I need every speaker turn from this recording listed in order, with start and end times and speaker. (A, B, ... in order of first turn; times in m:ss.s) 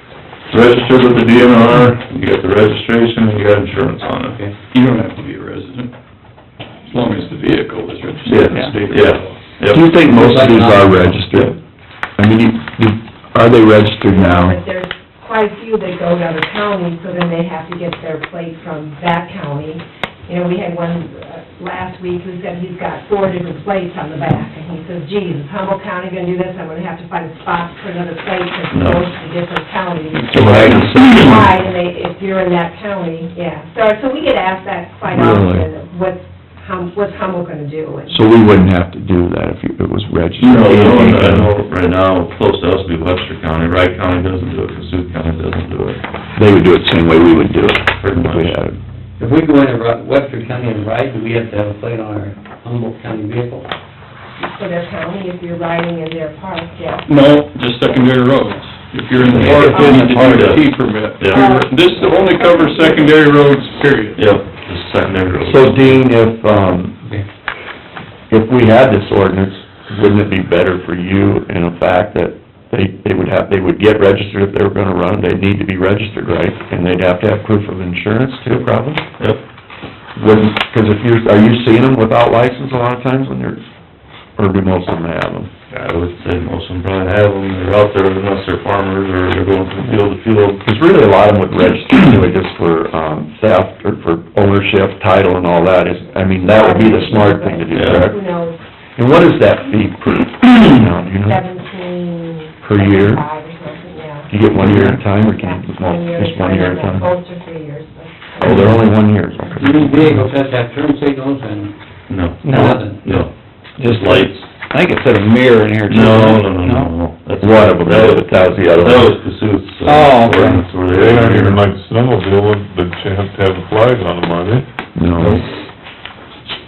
0:00.5-0:04.4 A
0:04.7-0:05.9 B
0:06.9-0:09.0 B
0:08.2-0:08.7 C
0:08.9-0:09.9 A
0:09.7-0:11.6 C
0:10.1-0:11.3 D
0:12.2-0:14.6 C
0:14.0-0:38.3 E
0:28.7-0:29.0 A
0:30.2-0:31.5 C
0:30.7-0:31.4 A
0:35.1-0:35.7 C
0:38.1-0:41.5 C
0:40.4-0:46.0 A
0:46.4-0:48.8 C
0:48.0-0:48.6 A
0:49.2-0:53.7 D
0:54.4-0:57.1 E
0:57.0-1:04.2 B
0:59.2-1:00.6 E
0:59.3-1:00.6 A
1:01.2-1:01.5 A
1:01.2-1:03.1 E
1:04.2-1:06.0 A
1:05.4-1:07.0 C
1:08.3-1:19.0 C
1:20.2-1:23.6 C
1:24.4-1:25.5 C
1:25.7-1:30.6 A
1:30.6-1:38.2 C
1:36.4-1:38.6 E
1:37.7-1:38.1 A
1:39.0-1:41.4 C
1:41.2-1:48.9 E
1:42.6-1:43.2 C
1:44.3-1:47.1 C
1:48.4-1:50.1 C
1:49.6-1:51.7 D
1:52.1-1:54.5 A
1:52.4-1:53.1 D
1:53.8-1:56.6 F
1:55.9-2:01.6 A
1:57.4-1:59.1 C
1:59.9-2:00.2 F
2:00.8-2:04.6 G
2:05.0-2:05.4 C
2:05.2-2:05.4 A